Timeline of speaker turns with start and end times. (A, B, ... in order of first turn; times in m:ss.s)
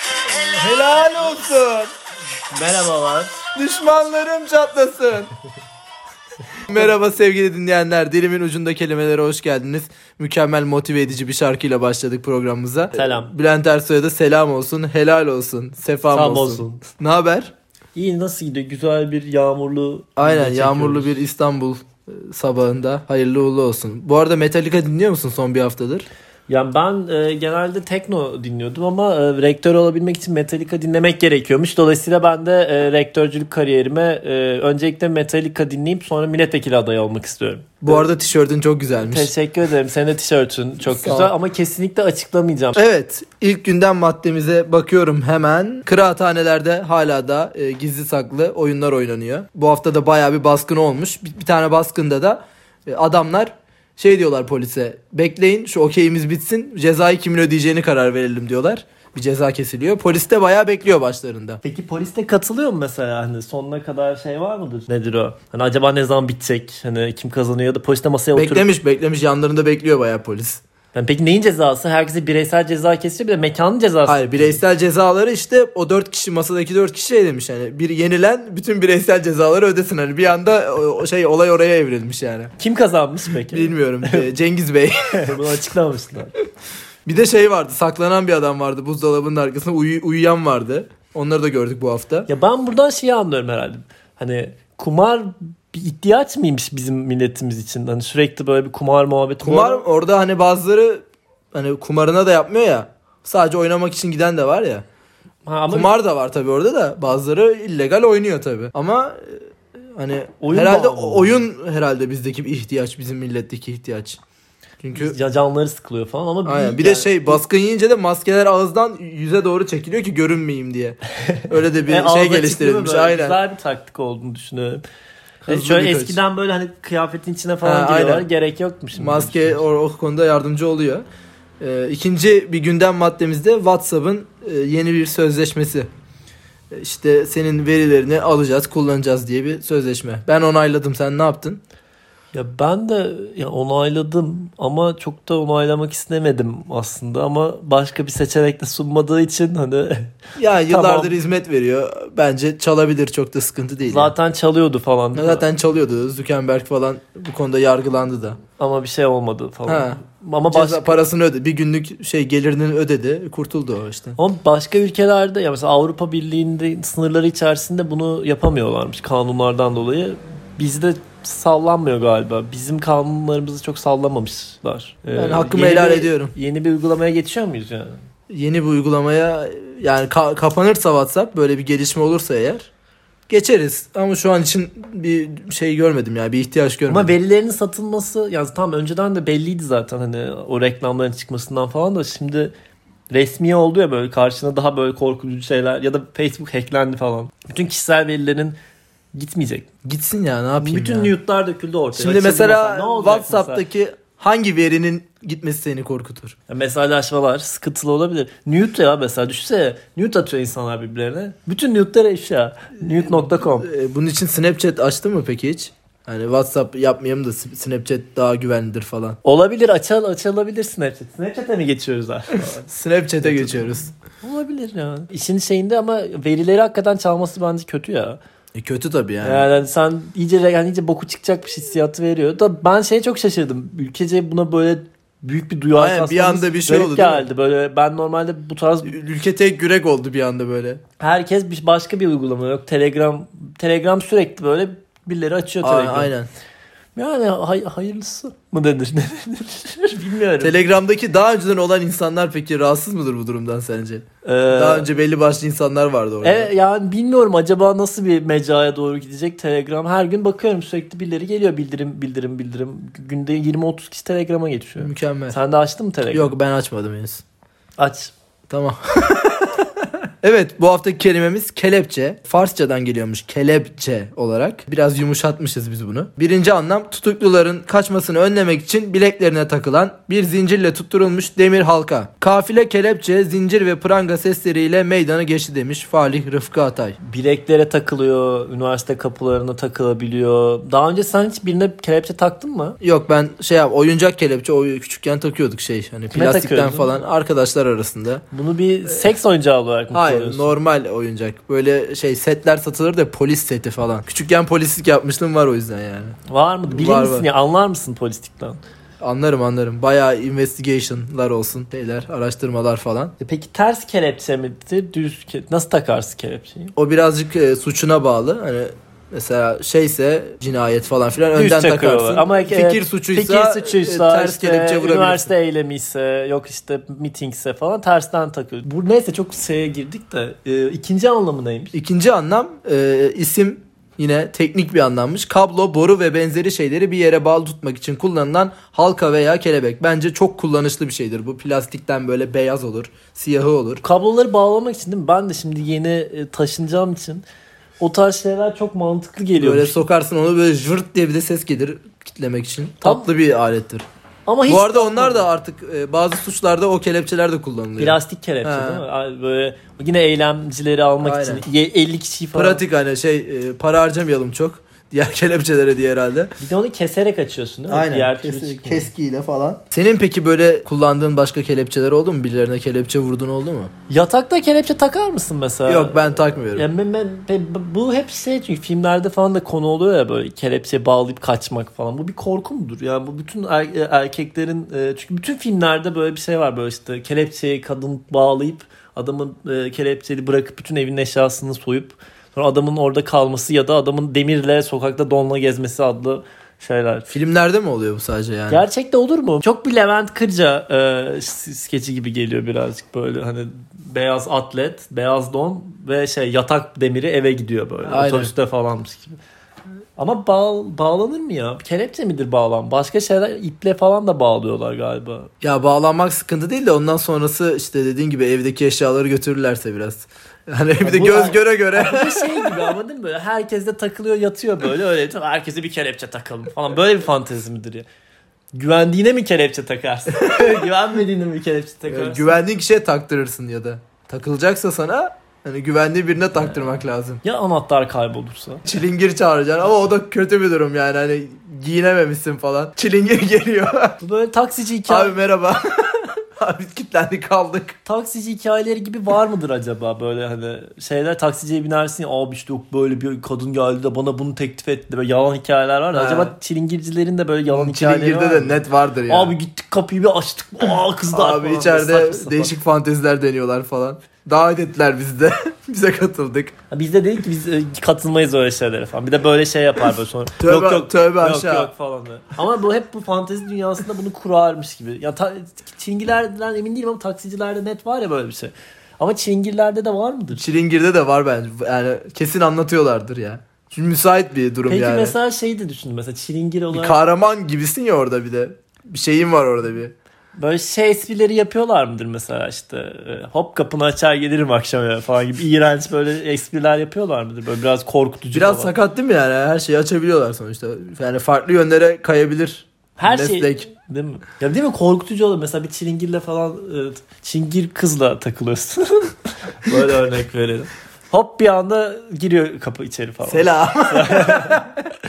0:00.3-0:01.9 A
0:02.5-0:03.3 B
0:03.5-0:05.3 A
0:06.7-0:17.5 A
0:12.9-0:13.3 B
0:16.1-0:16.8 B
0:17.9-0:21.2 B
0:20.2-0:26.1 A
0:26.5-0:38.0 B
0:37.8-0:39.3 A
0:39.0-0:42.8 B
0:40.8-0:41.3 A
0:42.8-1:01.6 A
1:01.6-1:08.7 B
1:08.3-1:10.6 A
1:10.9-1:14.6 B
1:14.1-1:22.5 A
1:22.6-1:24.3 B
1:23.4-1:25.4 A
1:25.2-1:26.3 B
1:27.0-1:32.3 A
1:32.3-1:39.8 B
1:39.4-1:44.8 A
1:45.4-1:45.9 B
1:45.7-1:54.2 A
1:50.4-1:51.4 B
1:54.8-1:55.2 A
1:54.9-1:57.4 B
1:56.4-2:03.4 A
2:01.9-2:04.8 B
2:05.4-2:09.6 B
2:05.5-2:06.2 A
2:07.6-2:08.3 A
2:08.9-2:11.0 A
2:11.6-2:15.9 A
2:16.7-2:21.6 A
2:22.3-2:30.1 B
2:30.4-2:34.1 A
2:30.7-2:31.2 B
2:33.8-2:35.4 B
2:35.1-2:38.4 A
2:38.6-2:41.0 B
2:39.7-2:40.0 A
2:40.5-2:44.2 A
2:44.2-2:58.0 B
2:55.2-2:56.3 A
2:58.3-3:02.7 A
3:03.3-3:07.2 A
3:06.9-3:12.5 B
3:13.1-3:18.6 B
3:19.1-3:19.7 B
3:19.8-3:21.1 A
3:20.6-3:23.6 B
3:21.9-3:26.3 A
3:26.5-3:33.7 B
3:32.8-3:39.2 A
3:39.2-3:42.7 B
3:42.6-3:43.9 A
3:43.2-3:48.2 B
3:48.5-3:49.4 A
3:49.2-3:58.9 B
3:55.8-3:57.3 A
3:58.8-4:00.8 A
4:01.0-4:06.1 B
4:05.6-4:06.3 A
4:07.0-4:10.6 B
4:10.4-4:16.5 A
4:14.2-4:14.9 B
4:16.2-4:26.3 B
4:24.8-4:25.4 A
4:26.1-4:27.2 A
4:27.8-4:28.1 B
4:28.5-4:29.7 A
4:30.2-4:47.0 A
4:47.0-4:52.8 B
4:52.8-4:58.2 A
4:56.1-4:56.9 B
4:58.3-5:00.5 B
4:59.9-5:06.2 A
5:06.3-5:08.6 B
5:06.7-5:07.3 A
5:09.0-5:13.1 A
5:13.2-5:16.7 B
5:16.8-5:25.3 A
5:21.3-5:31.8 B
5:31.7-5:43.8 A
5:43.8-5:47.2 B
5:47.8-5:49.8 B
5:49.4-5:53.8 A
5:52.8-5:53.1 B
5:54.2-5:55.3 B
5:54.5-5:58.8 A
5:57.8-6:02.6 B
6:01.0-6:01.4 A
6:02.3-6:06.3 A
6:06.4-6:08.9 B
6:07.7-6:13.7 A
6:13.9-6:37.1 B
6:15.6-6:16.7 A
6:37.1-6:38.6 A
6:38.5-6:49.2 B
6:47.9-6:48.3 A
6:50.0-6:55.3 B
6:55.4-7:02.7 A
7:00.8-7:07.8 B
7:08.5-7:12.4 B
7:10.1-7:10.7 A
7:11.9-7:17.2 A
7:17.2-7:18.6 B
7:18.6-7:24.0 A
7:24.0-7:25.1 B
7:24.9-7:27.8 A
7:27.8-7:42.5 B
7:35.9-7:36.3 A
7:37.5-7:39.4 A
7:41.1-7:46.5 A
7:46.7-8:00.4 B
7:50.4-7:51.7 A
8:00.3-8:05.1 A
8:04.7-8:07.0 B
8:06.7-8:09.9 A
8:10.4-8:18.7 B
8:18.3-8:23.7 A
8:23.0-8:34.7 B
8:33.3-8:34.7 A